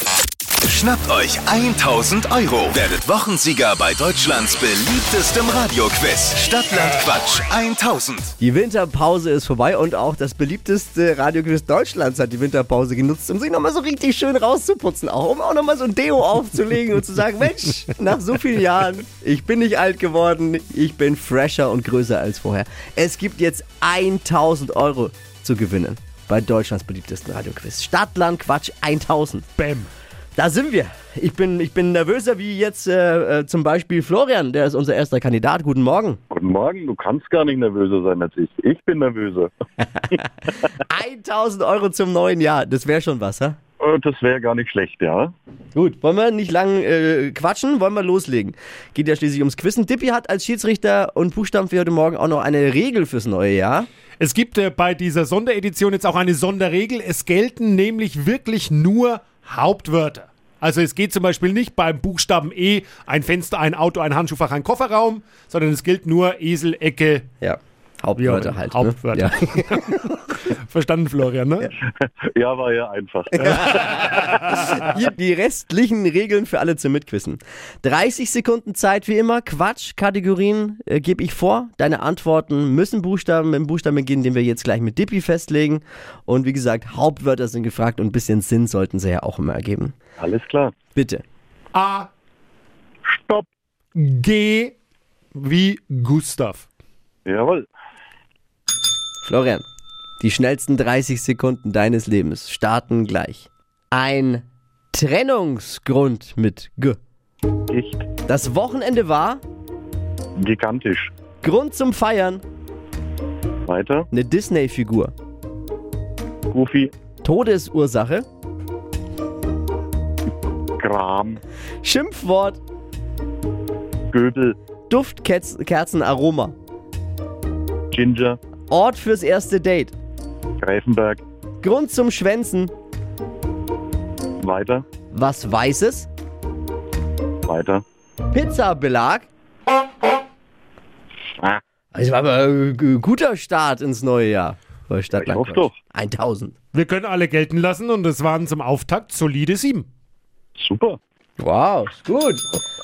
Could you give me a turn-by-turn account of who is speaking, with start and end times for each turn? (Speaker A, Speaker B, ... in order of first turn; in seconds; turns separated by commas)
Speaker A: 0.6-8.3, Speaker B: 8.4-29.4, Speaker C: 29.6-29.9, Speaker B: 30.4-36.2, Speaker D: 36.3-39.5, Speaker B: 40.9-43.6, Speaker D: 43.8-45.3, Speaker B: 45.8-53.9, Speaker C: 54.2-67.3, Speaker B: 67.4-70.1, Speaker C: 68.2-71.7, Speaker D: 72.0-73.7, Speaker C: 73.4-74.8, Speaker B: 73.4-90.0, Speaker D: 90.2-90.8, Speaker B: 91.0-91.2, Speaker C: 91.7-92.1, Speaker D: 93.1-93.5, Speaker C: 94.0-94.7, Speaker C: 95.3-96.7, Speaker D: 97.3-97.7, Speaker B: 99.2-99.7, Speaker B: 100.2-107.0, Speaker D: 107.7-108.1, Speaker B: 108.3-109.4, Speaker D: 110.4-111.1, Speaker B: 111.4-112.4, Speaker D: 113.7-114.1, Speaker B: 114.1-115.1, Speaker D: 116.5-116.9, Speaker B: 117.2-118.3, Speaker D: 120.8-121.4, Speaker B: 121.8-122.6, Speaker D: 124.1-124.6, Speaker B: 124.9-126.6, Speaker D: 127.9-128.4, Speaker B: 128.7-129.9, Speaker D: 130.6-131.2, Speaker B: 131.6-132.7, Speaker D: 134.4-134.8, Speaker B: 135.1-136.1, Speaker D: 137.5-137.8, Speaker B: 138.3-139.3, Speaker B: 141.9-146.6, Speaker D: 145.1-145.8, Speaker C: 146.7-149.9, Speaker D: 150.6-151.0, Speaker B: 151.4-152.5